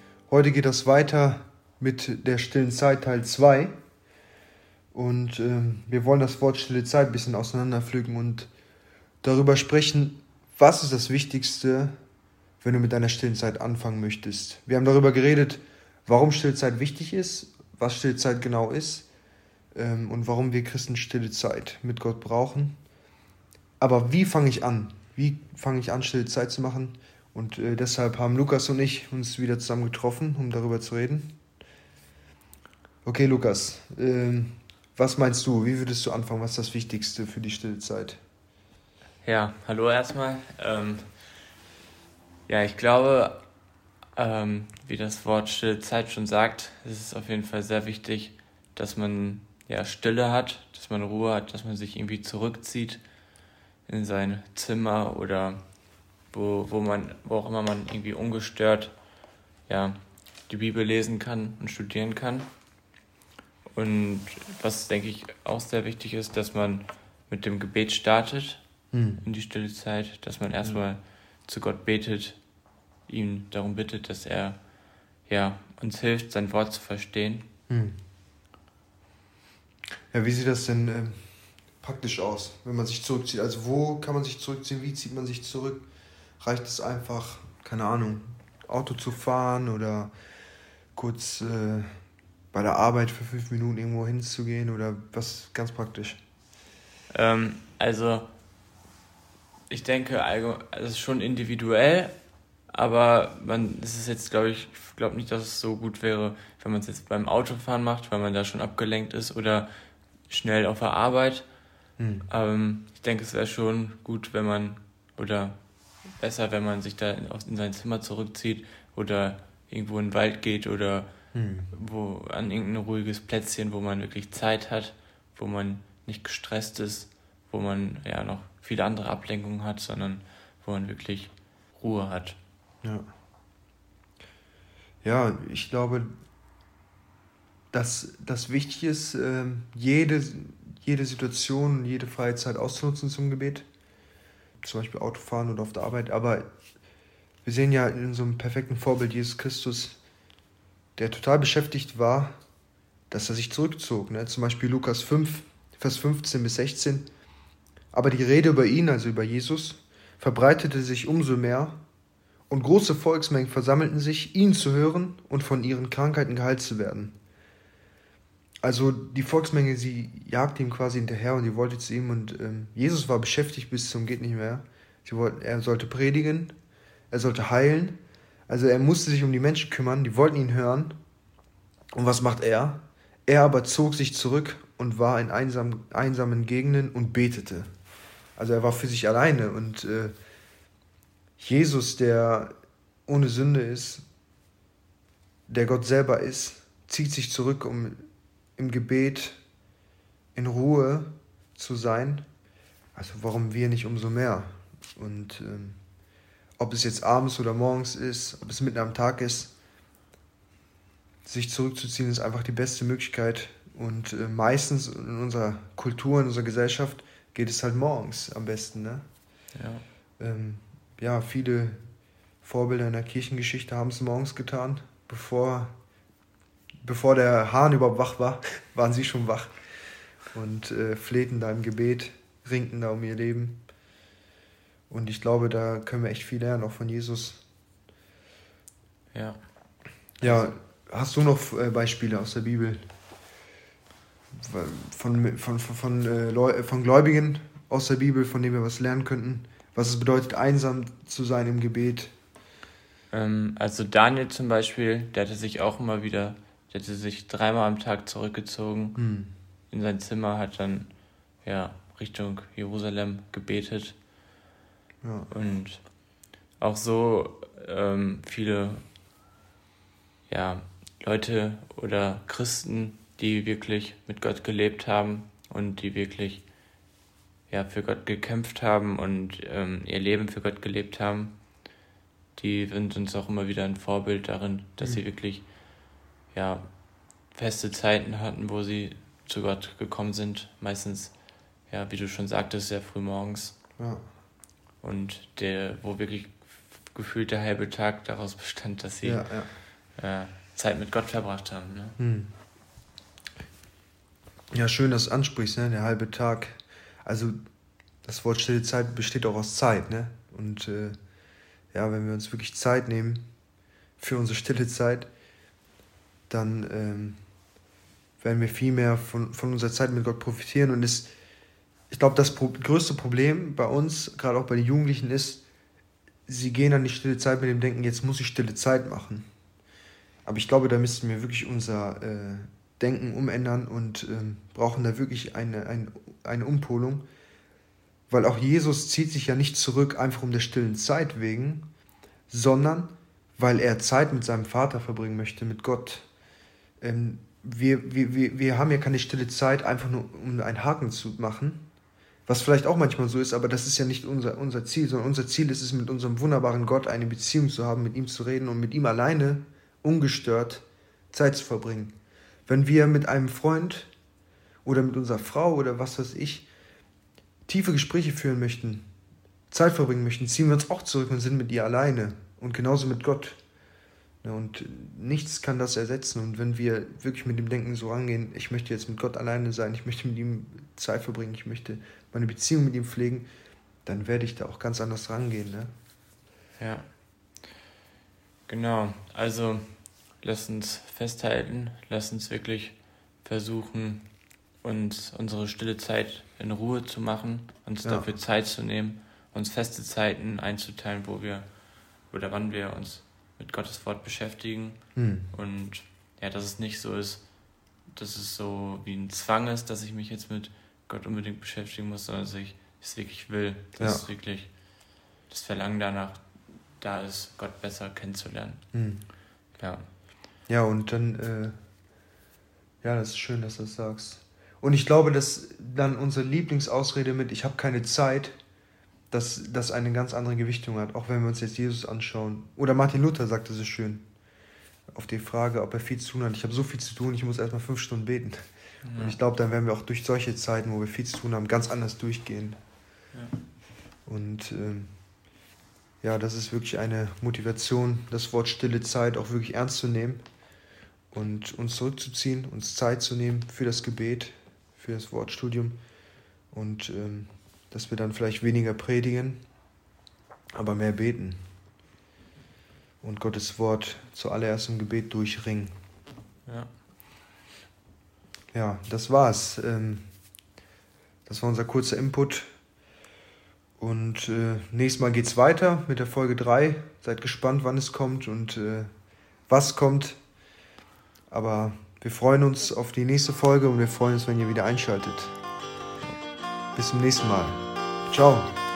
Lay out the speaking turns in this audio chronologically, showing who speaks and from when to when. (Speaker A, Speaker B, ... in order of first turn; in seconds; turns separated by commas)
Speaker A: 0.3-3.7, Speaker A: 4.9-8.5, Speaker A: 9.2-11.9, Speaker A: 12.6-19.1, Speaker A: 19.7-22.8, Speaker A: 23.8-31.3, Speaker A: 33.0-38.2, Speaker B: 39.2-41.1, Speaker B: 42.5-43.4, Speaker B: 44.2-53.0, Speaker B: 53.9-55.6, Speaker B: 56.3-59.0, Speaker B: 59.7-62.5, Speaker B: 63.7-68.6, Speaker A: 68.9-69.2, Speaker B: 69.2-72.4, Speaker B: 73.1-77.5, Speaker A: 77.7-78.0, Speaker A: 80.1-85.9, Speaker A: 86.4-90.1, Speaker A: 91.0-92.0, Speaker A: 92.5-96.2, Speaker B: 97.1-98.3, Speaker B: 99.7-102.2, Speaker B: 102.7-109.7, Speaker B: 110.3-111.5, Speaker A: 112.0-112.3, Speaker B: 112.3-115.6, Speaker B: 116.2-121.2, Speaker A: 121.3-121.7, Speaker B: 121.7-132.4, Speaker A: 135.0-136.1, Speaker A: 137.7-143.7, Speaker A: 144.6-146.5, Speaker A: 147.4-150.0, Speaker A: 151.0-152.3, Speaker A: 153.1-157.1, Speaker A: 157.9-161.8, Speaker A: 162.5-167.1, Speaker A: 168.6-176.5, Speaker A: 177.1-180.9, Speaker A: 181.9-187.7, Speaker A: 188.4-190.1, Speaker A: 191.4-192.5, Speaker A: 193.1-194.0, Speaker A: 195.5-198.0, Speaker A: 198.6-199.4, Speaker A: 200.3-202.2, Speaker A: 202.9-205.8, Speaker A: 206.6-209.5, Speaker A: 211.2-219.0, Speaker B: 219.6-219.8, Speaker A: 220.2-221.9, Speaker A: 222.4-225.7, Speaker A: 226.8-229.6, Speaker A: 230.3-233.6, Speaker A: 234.9-237.4, Speaker B: 239.1-239.4, Speaker A: 240.2-242.8, Speaker B: 240.2-240.5, Speaker A: 244.4-252.1, Speaker B: 253.1-259.0, Speaker A: 258.9-259.3, Speaker B: 259.7-264.0, Speaker A: 265.0-265.3, Speaker B: 265.3-268.8, Speaker B: 270.3-276.8, Speaker B: 277.5-281.8, Speaker B: 282.4-293.6, Speaker A: 293.8-294.0, Speaker B: 294.8-302.0, Speaker A: 299.0-299.5, Speaker A: 302.0-302.3, Speaker A: 304.5-307.4, Speaker A: 308.0-311.0, Speaker A: 311.7-313.2, Speaker A: 314.0-315.1, Speaker A: 316.3-317.2, Speaker A: 318.2-321.1, Speaker A: 321.9-325.4, Speaker A: 326.3-329.3, Speaker A: 330.2-337.1, Speaker A: 338.1-341.6, Speaker A: 342.3-346.1, Speaker A: 346.8-351.6, Speaker A: 352.3-361.9, Speaker A: 362.5-363.9, Speaker A: 364.6-366.5, Speaker A: 367.5-368.9, Speaker A: 369.5-373.4, Speaker A: 374.2-383.3, Speaker A: 383.9-385.7, Speaker B: 386.6-386.9, Speaker B: 388.5-418.7, Speaker A: 397.8-398.1, Speaker A: 405.0-405.3, Speaker A: 413.8-414.1, Speaker A: 418.7-419.1, Speaker B: 419.5-419.9, Speaker A: 420.5-421.6, Speaker A: 422.8-428.4, Speaker A: 429.1-434.1, Speaker A: 434.9-442.6, Speaker B: 438.8-439.2, Speaker B: 443.1-443.4, Speaker A: 444.1-444.9, Speaker A: 446.0-450.2, Speaker A: 451.1-455.8, Speaker A: 456.5-459.4, Speaker A: 460.5-461.4, Speaker A: 463.0-465.7, Speaker B: 466.5-466.7, Speaker A: 468.5-470.1, Speaker A: 471.3-472.5, Speaker A: 473.8-478.9, Speaker A: 479.5-480.2, Speaker A: 481.3-485.4, Speaker A: 486.8-488.5